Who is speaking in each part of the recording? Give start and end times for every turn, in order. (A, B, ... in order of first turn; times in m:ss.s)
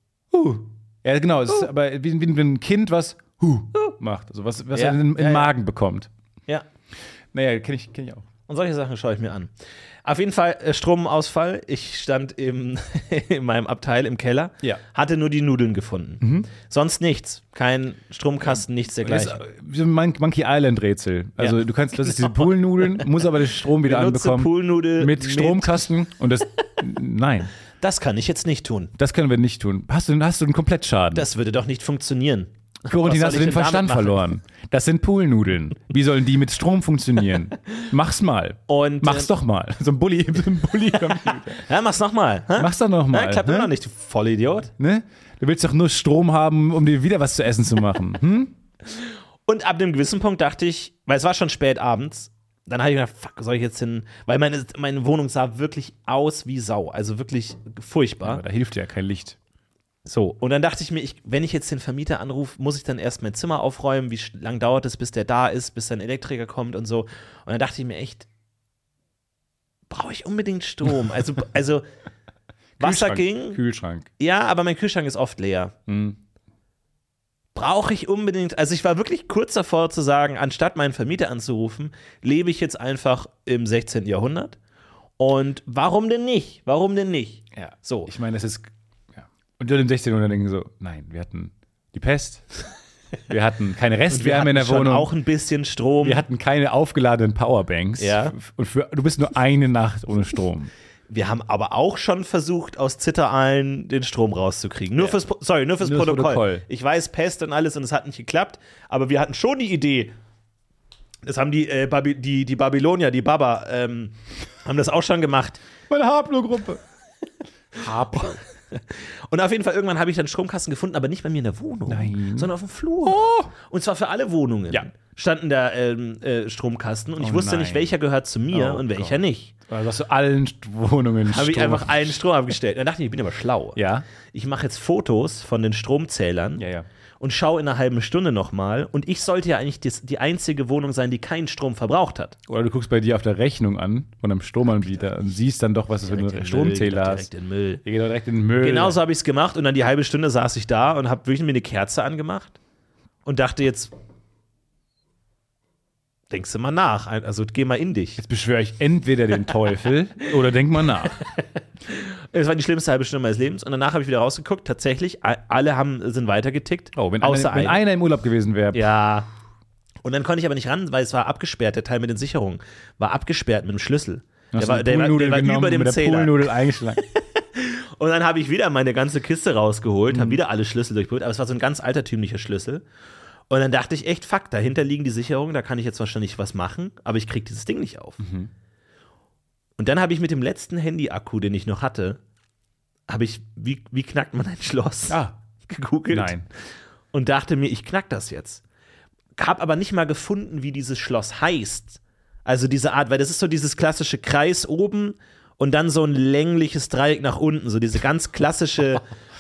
0:00.3-0:06.1 A
0:04.7-0:05.5 B
0:07.3-0:08.3 A
0:08.5-0:09.5 B
0:10.0-0:19.4 B
0:16.2-0:16.5 A
0:19.0-0:27.5 A
0:21.4-0:23.2 B
0:23.8-0:25.9 B
0:27.8-0:28.9 B
0:29.0-0:31.3 A
0:31.1-0:34.2 B
0:32.9-0:41.7 A
0:38.7-0:39.3 B
0:41.6-0:44.7 B
0:42.6-0:43.7 A
0:44.8-0:48.5 A
0:49.5-0:58.4 B
0:58.2-0:59.4 A
1:00.1-1:08.3 B
1:09.9-1:11.9 B
1:12.8-1:13.6 B
1:12.8-1:14.1 A
1:14.2-1:15.8 B
1:15.9-1:16.2 A
1:17.5-1:24.6 B
1:25.2-1:28.1 B
1:27.5-1:32.5 A
1:33.3-1:35.1 A
1:34.1-1:36.2 B
1:36.0-1:40.7 A
1:38.0-1:38.4 B
1:41.1-1:50.1 B
1:45.8-1:46.6 A
1:51.2-1:55.6 B
1:55.9-1:56.8 A
1:57.7-1:58.4 A
1:58.2-2:09.5 B
2:01.9-2:02.5 A
2:03.0-2:03.5 A
2:07.2-2:08.0 A
2:08.5-2:12.2 A
2:11.3-2:16.6 B
2:13.8-2:14.0 A
2:16.6-2:16.9 A
2:17.2-2:22.4 B
2:22.5-2:27.3 A
2:26.0-2:27.8 B
2:27.8-2:29.0 A
2:28.6-2:32.6 B
2:33.2-2:33.9 B
2:36.3-2:38.2 B
2:38.2-2:41.2 A
2:41.9-2:47.8 B
2:47.0-2:48.9 A
2:48.7-2:49.3 B
2:50.0-3:02.8 B
2:54.5-2:57.0 A
3:00.1-3:00.4 A
3:03.5-3:08.2 B
3:08.2-3:08.5 A
3:09.8-3:12.2 B
3:13.1-3:16.4 B
3:15.1-3:15.4 A
3:16.1-3:16.5 A
3:17.1-3:18.6 B
3:19.4-3:29.0 B